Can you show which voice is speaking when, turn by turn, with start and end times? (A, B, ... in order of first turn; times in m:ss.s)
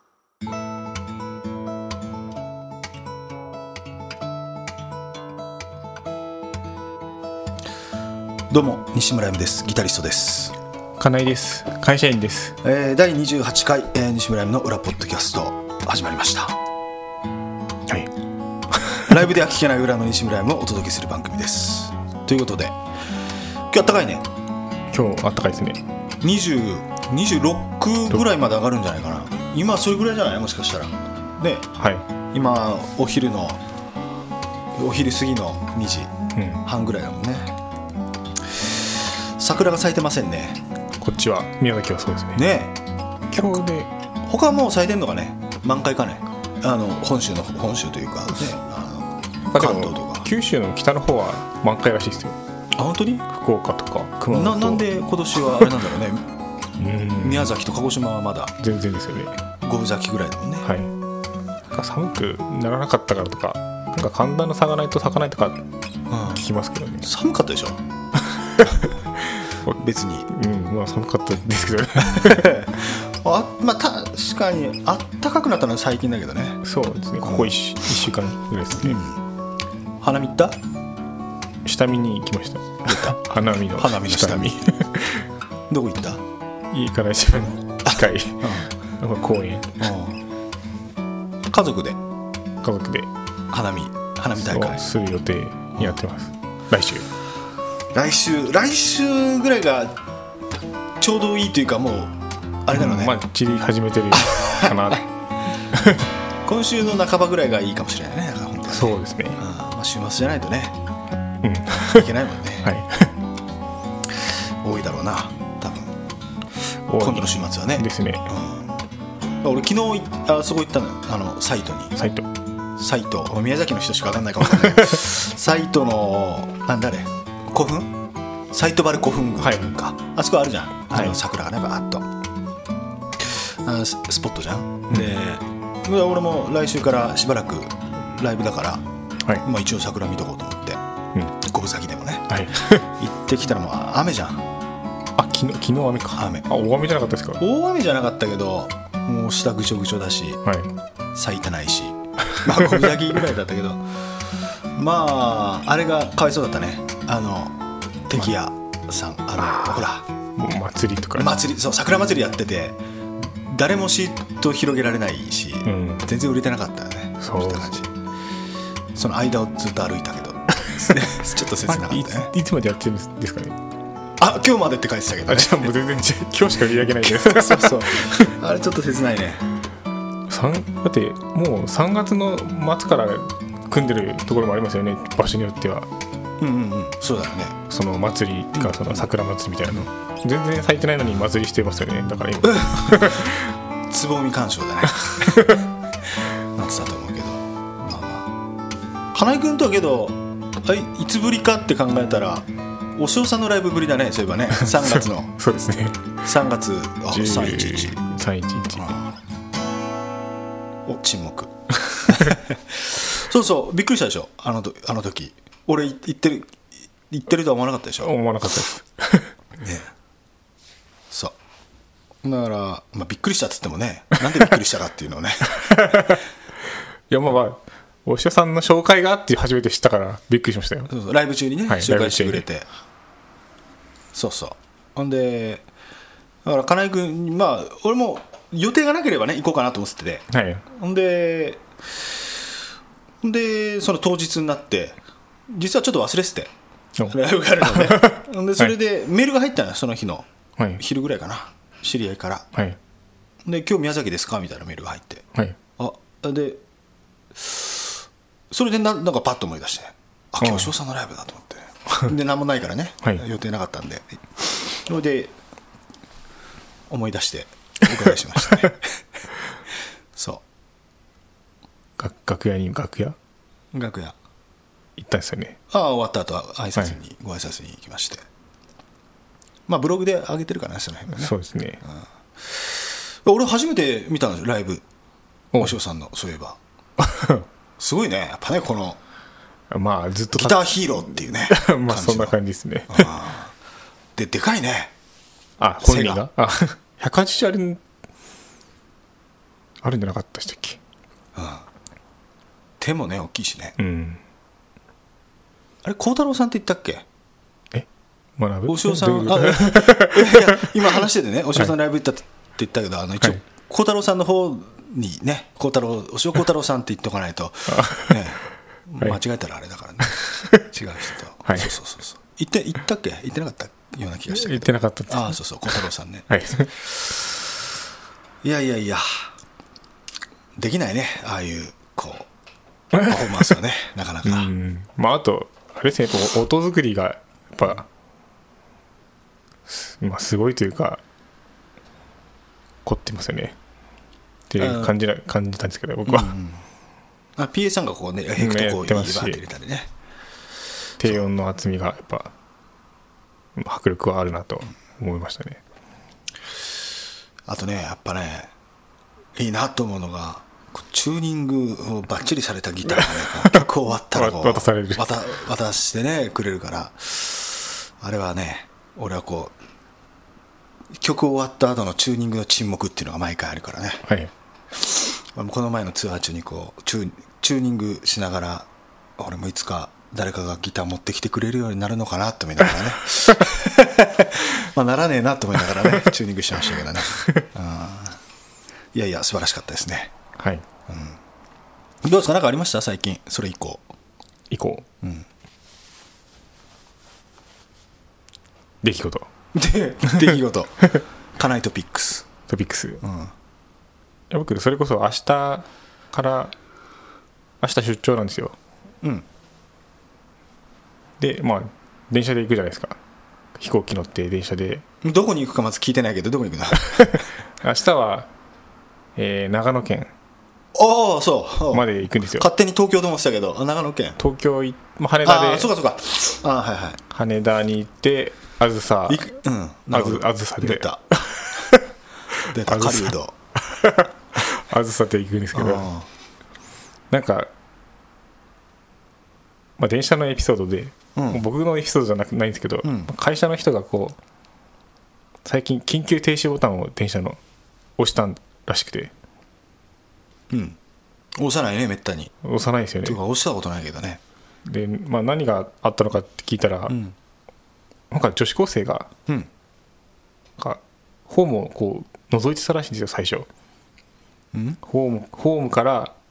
0:08.5-0:10.6 A
0:11.0-0:12.6 B
0:12.6-0:16.6 A
0:18.7-0:19.1 B
0:19.1-0:22.8 A
0:23.7-0:24.2 A
0:24.9-0:25.8 B
0:26.2-0:31.7 A
0:31.8-0:32.0 B
0:32.3-0:33.6 A
0:34.8-0:36.1 A
0:36.3-0:36.6 B
0:36.6-0:37.5 A
0:38.5-0:40.6 A
0:41.0-0:42.4 B
0:42.4-0:42.7 A
0:43.3-0:43.9 B
0:44.2-0:50.3 A
0:49.5-0:52.4 B
0:52.8-0:53.2 A
0:53.3-0:54.9 B
0:54.3-0:56.2 A
0:56.8-0:57.5 B
0:57.2-0:58.5 A
0:58.6-0:59.4 B
0:59.6-1:00.7 A
1:00.6-1:00.9 B
1:01.7-1:05.6 B
1:06.1-1:06.4 A
1:06.3-1:07.1 B
1:07.0-1:07.8 A
1:08.2-1:12.5 B
1:08.6-1:09.0 A
1:09.8-1:10.3 A
1:12.0-1:16.6 A
1:16.6-1:19.0 B
1:17.2-1:17.6 A
1:18.8-1:19.2 A
1:20.0-1:20.6 A
1:21.6-1:25.3 B
1:22.8-1:23.2 A
1:23.8-1:24.6 A
1:25.7-1:26.2 A
1:26.7-1:29.8 B
1:27.8-1:28.7 A
1:29.8-1:30.2 A
1:31.5-1:32.0 A
1:32.6-1:33.1 B
1:33.5-1:34.8 A
1:34.4-1:37.1 B
1:37.9-1:40.0 A
1:41.0-1:43.2 A
1:42.7-1:45.0 B
1:44.1-1:44.8 A
1:45.7-1:46.1 B
1:46.4-1:50.8 A
1:48.7-1:49.4 B
1:51.4-1:52.1 B
1:51.9-1:52.7 A
1:52.6-1:53.1 B
1:54.1-1:56.0 A
1:56.9-1:58.3 B
1:57.0-1:58.8 A
1:59.4-2:01.9 A
2:02.0-2:02.2 B
2:02.8-2:07.9 A
2:04.4-2:05.0 B
2:08.5-2:12.1 A
2:09.4-2:09.7 B
2:13.2-2:18.8 A
2:19.4-2:20.8 A
2:21.4-2:22.3 A
2:22.3-2:22.9 B
2:23.0-2:24.5 A
2:25.2-2:27.4 B
2:26.2-2:26.4 A
2:27.4-2:30.4 A
2:30.4-2:30.7 B
2:31.1-2:33.8 A
2:32.3-2:33.0 B
2:34.7-2:37.6 A
2:38.1-2:40.0 A
2:39.4-2:39.8 B
2:40.4-2:41.4 B
2:41.2-2:47.9 A
2:45.6-2:46.0 B
2:47.2-2:47.8 B
2:48.9-2:52.3 A
2:50.6-2:51.1 B
2:51.6-2:53.5 B
2:54.2-2:55.7 A
2:55.2-2:58.3 B
2:57.0-2:59.4 A
3:00.3-3:05.9 B
3:06.4-3:07.6 A
3:07.7-3:13.5 B
3:08.5-3:09.1 A
3:12.4-3:13.3 A
3:13.9-3:15.5 A
3:15.0-3:15.6 B
3:16.6-3:18.3 A
3:19.1-3:25.3 A
3:24.5-3:26.1 B
3:26.2-3:28.0 A
3:27.1-3:29.1 B
3:28.8-3:29.1 A
3:30.8-3:31.5 A
3:31.9-3:32.4 B
3:32.1-3:38.1 A
3:38.0-3:39.3 B
3:39.6-3:39.9 A
3:41.1-3:41.4 A
3:42.2-3:46.2 A
3:45.6-3:46.2 B
3:47.1-3:50.9 B
3:50.9-3:52.6 A
3:51.7-3:52.4 B
3:54.1-3:55.7 A
3:56.4-4:02.0 A
4:00.3-4:00.6 B
4:03.2-4:06.5 A
4:07.0-4:08.7 B
4:07.1-4:10.3 A
4:10.8-4:12.5 A
4:12.5-4:12.8 B
4:13.4-4:15.2 A
4:15.8-4:16.6 A
4:17.3-4:25.3 A
4:20.4-4:20.7 B
4:26.9-4:28.9 A
4:30.1-4:30.4 A
4:32.0-4:33.2 B
4:33.7-4:34.2 A
4:35.0-4:35.6 B
4:35.7-4:38.2 A
4:39.7-4:41.3 A
4:41.1-4:41.8 B
4:41.8-4:44.8 A
4:45.6-4:46.6 A
4:47.0-4:47.4 B
4:47.8-4:49.0 A
4:49.7-4:53.2 B
4:50.3-4:52.4 A
4:52.9-4:53.5 A
4:54.2-4:54.9 A
4:55.6-4:57.8 B
4:55.8-4:56.2 A
4:59.8-5:00.8 B
5:01.3-5:01.6 A
5:02.8-5:03.8 A
5:03.8-5:04.2 B
5:05.8-5:07.0 A
5:08.4-5:10.7 B
5:08.7-5:26.3 A
5:17.7-5:18.2 B
5:20.1-5:20.6 B
5:21.4-5:21.7 B
5:24.3-5:26.7 B
5:28.4-5:29.3 A
5:30.6-5:32.3 A
5:33.0-5:34.5 A
5:34.2-5:37.8 B
5:39.7-5:41.0 B
5:42.8-5:43.6 B
5:44.5-5:46.3 B
5:44.6-5:44.9 A
5:46.0-5:46.6 A
5:47.4-5:49.9 A
5:48.4-5:49.4 B
5:51.0-5:52.3 B
5:53.6-5:55.6 B
5:57.4-5:58.5 A
5:59.4-6:09.5 A
6:02.9-6:05.0 B
6:11.0-6:14.0 A
6:14.0-6:14.3 B
6:14.7-6:28.2 A
6:28.9-6:30.1 A
6:30.4-6:30.6 B
6:30.9-6:31.2 A
6:32.0-6:33.9 A
6:34.5-6:34.8 B
6:35.0-6:35.3 A
6:38.8-6:39.3 B
6:39.5-6:42.3 A
6:40.1-6:40.3 B
6:42.5-6:43.0 B
6:43.0-6:43.3 A
6:44.3-6:46.5 B
6:47.6-6:48.6 B
6:51.2-6:53.0 B
6:53.6-6:54.8 B
6:55.0-6:57.2 A
6:57.0-6:58.3 B
6:59.2-7:00.1 B
7:00.7-7:04.2 A
7:01.7-7:02.5 B
7:04.2-7:05.7 B
7:05.2-7:07.0 A
7:07.1-7:09.4 B
7:09.1-7:11.0 A
7:09.9-7:15.9 B
7:12.5-7:13.3 A
7:15.5-7:16.1 A
7:17.1-7:17.5 B
7:19.8-7:24.2 B
7:21.2-7:21.4 A
7:22.8-7:23.1 A
7:25.4-7:27.4 B
7:28.0-7:29.1 B
7:30.5-7:30.8 A
7:31.4-7:32.3 A
7:32.4-7:33.2 B
7:33.0-7:34.2 A
7:34.6-7:37.0 B
7:36.9-7:37.2 A
7:38.1-7:39.1 B
7:40.6-7:43.5 B
7:44.5-7:44.8 A
7:44.8-7:46.1 B